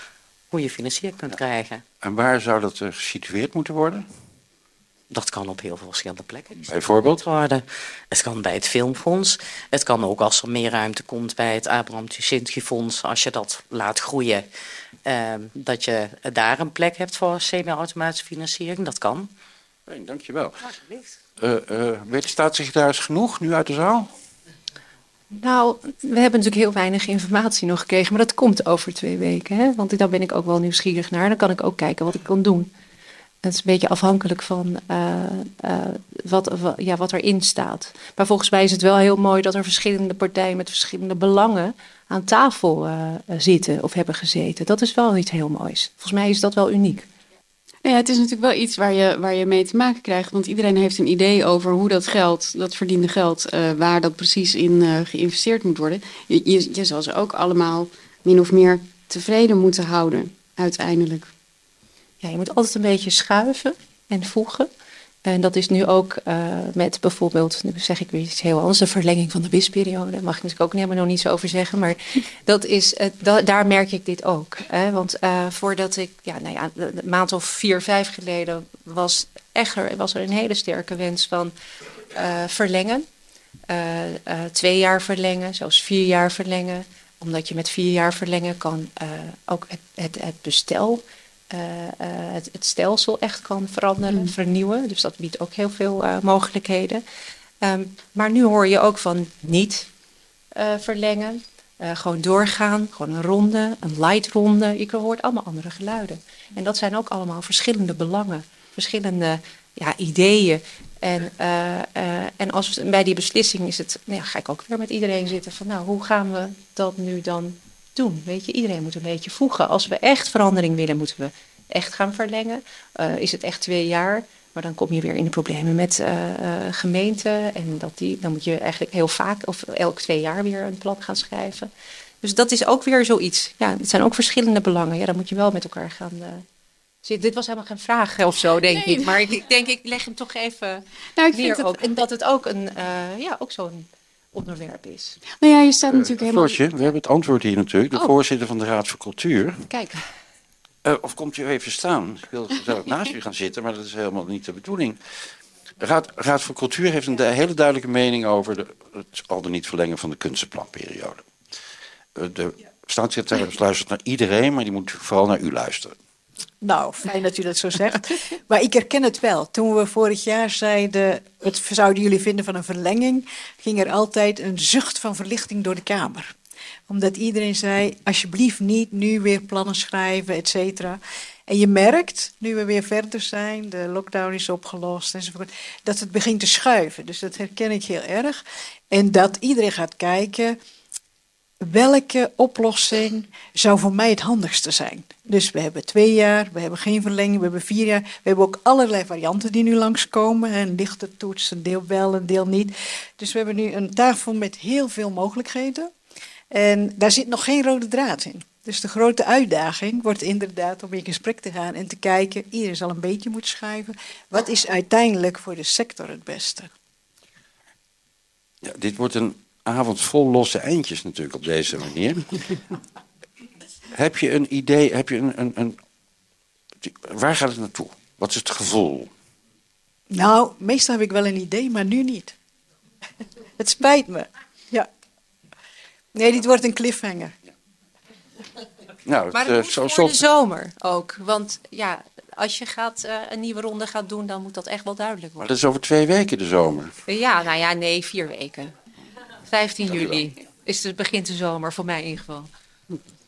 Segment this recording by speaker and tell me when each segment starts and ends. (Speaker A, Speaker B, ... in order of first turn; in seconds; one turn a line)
Speaker A: 0.5-1.8
Speaker B: 2.0-4.1
Speaker A: 5.1-14.4
Speaker B: 6.6-7.2
Speaker A: 15.1-19.3
Speaker B: 19.9-20.6
Speaker B: 21.4-24.1
Speaker C: 25.3-32.7
Speaker C: 33.4-47.0
Speaker D: 47.8-61.3
Speaker C: 62.2-64.7
Speaker C: 65.2-81.5
Speaker C: 82.1-83.0
Speaker C: 83.7-97.0
Speaker C: 97.6-99.9
Speaker C: 100.5-131.7
Speaker C: 132.2-136.4
Speaker C: 137.0-145.2
Speaker D: 138.7-139.2
Speaker D: 141.2-141.9
Speaker D: 145.4-146.6
Speaker B: 145.9-149.7
Speaker C: 149.7-149.9
Speaker B: 150.8-155.0
Speaker B: 155.8-161.2
Speaker B: 162.1-165.9
Speaker E: 166.6-176.3
Speaker E: 176.9-188.4
Speaker E: 188.9-190.6
Speaker E: 191.6-205.9
Speaker E: 206.5-216.7
Speaker B: 218.6-222.6
Speaker B: 223.9-225.8
Speaker B: 226.8-229.1
Speaker E: 230.1-232.3
Speaker E: 233.6-234.9
Speaker E: 236.1-237.3
Speaker B: 239.1-240.2
Speaker C: 239.3-245.5
Speaker B: 245.4-246.9
Speaker C: 247.1-248.7
Speaker C: 249.4-252.5